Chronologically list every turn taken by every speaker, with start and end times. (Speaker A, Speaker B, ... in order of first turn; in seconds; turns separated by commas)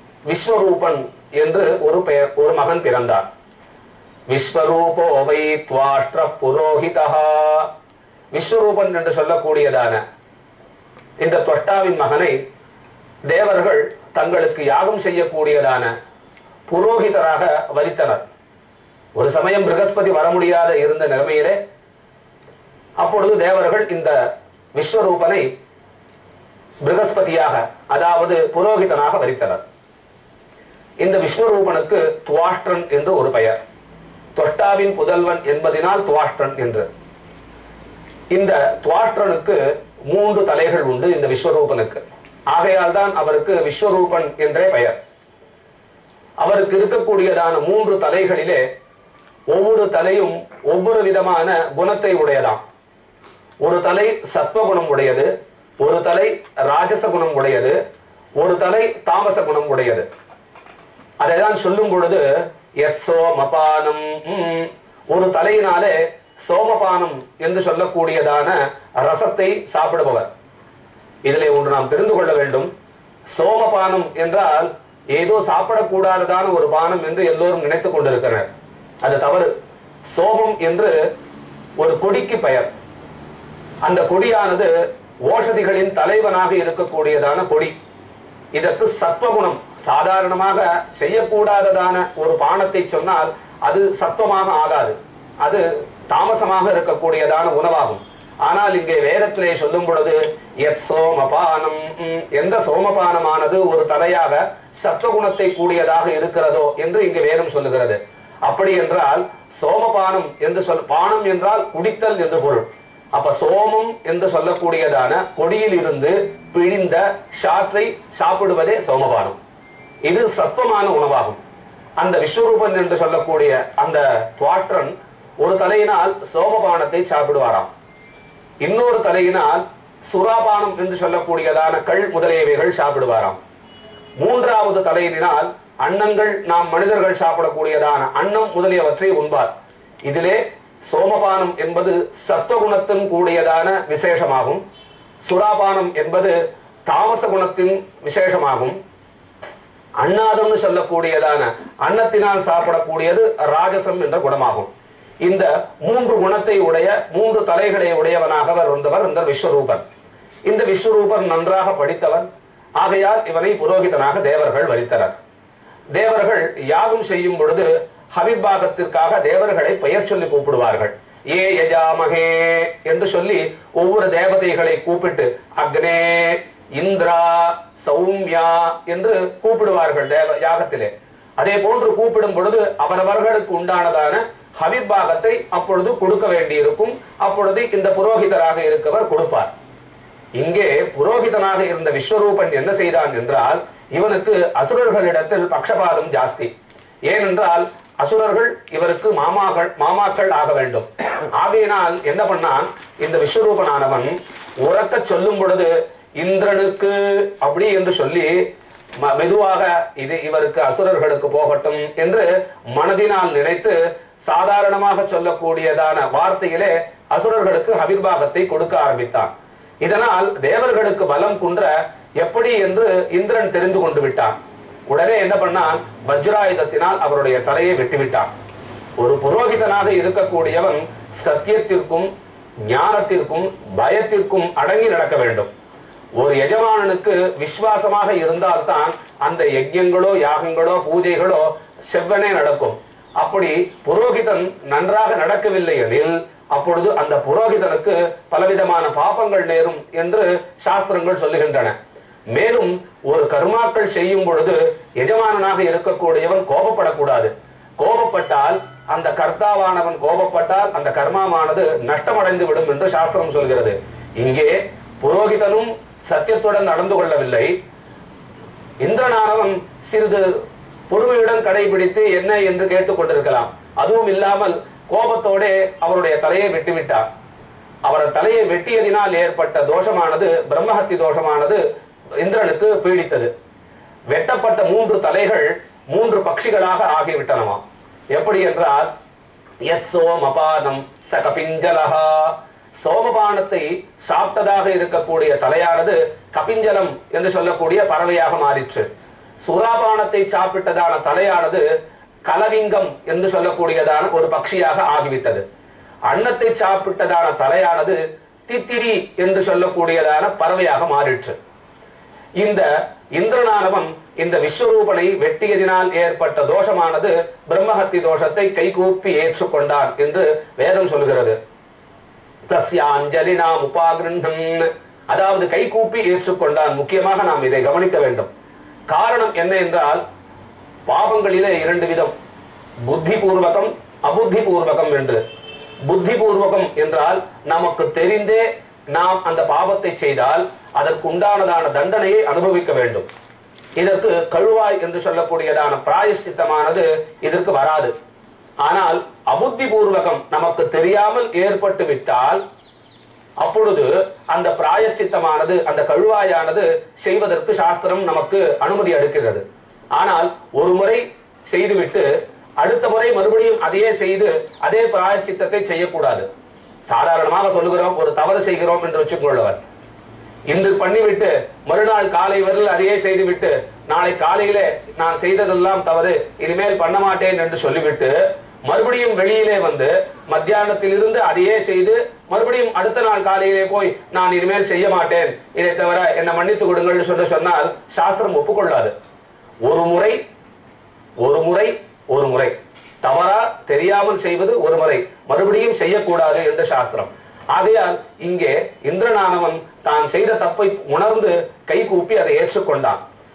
Speaker A: 0.3-3.2, Speaker A: 4.3-7.7, Speaker A: 8.3-10.0, Speaker A: 11.2-12.3, Speaker A: 13.3-15.9, Speaker A: 16.7-18.2, Speaker A: 19.1-21.6, Speaker A: 23.0-24.1, Speaker A: 24.7-25.5, Speaker A: 26.8-29.6, Speaker A: 31.0-33.6, Speaker A: 34.4-36.9, Speaker A: 38.3-45.0, Speaker A: 46.4-48.6, Speaker A: 49.5-52.6, Speaker A: 53.6-55.3, Speaker A: 55.8-57.8, Speaker A: 58.4-60.0, Speaker A: 61.2-62.2, Speaker A: 62.8-70.3, Speaker A: 71.2-72.7, Speaker A: 73.3-78.5, Speaker A: 79.0-79.5, Speaker A: 80.1-81.0, Speaker A: 81.8-82.7, Speaker A: 83.8-84.7, Speaker A: 85.2-87.7, Speaker A: 88.5-119.3, Speaker A: 120.0-121.4, Speaker A: 122.0-127.7, Speaker A: 128.6-133.4, Speaker A: 134.2-139.5, Speaker A: 140.1-144.6, Speaker A: 145.2-146.3, Speaker A: 146.9-148.8, Speaker A: 150.0-154.7, Speaker A: 155.2-159.8, Speaker A: 160.5-162.3, Speaker A: 162.8-165.1, Speaker A: 165.9-189.5, Speaker A: 190.4-196.5, Speaker A: 197.1-208.4, Speaker A: 209.0-224.3, Speaker A: 224.9-228.3, Speaker A: 229.0-232.1, Speaker A: 232.7-235.5, Speaker A: 236.2-251.7, Speaker A: 252.3-267.5, Speaker A: 268.8-270.2, Speaker A: 270.9-277.1, Speaker A: 277.8-281.6, Speaker A: 282.2-283.3, Speaker A: 284.1-287.6, Speaker A: 288.1-288.9, Speaker A: 289.6-298.9, Speaker A: 299.4-301.6, Speaker A: 302.2-305.4, Speaker A: 306.1-311.4, Speaker A: 312.4-321.4, Speaker A: 322.5-328.3, Speaker A: 328.9-330.0, Speaker A: 330.9-332.1, Speaker A: 332.9-335.2, Speaker A: 335.9-343.1, Speaker A: 343.8-347.9, Speaker A: 348.6-352.4, Speaker A: 353.4-359.4, Speaker A: 359.9-362.1, Speaker A: 362.6-366.2, Speaker A: 366.9-369.6, Speaker A: 370.5-378.1, Speaker A: 378.6-388.9, Speaker A: 389.6-390.2, Speaker A: 391.2-403.0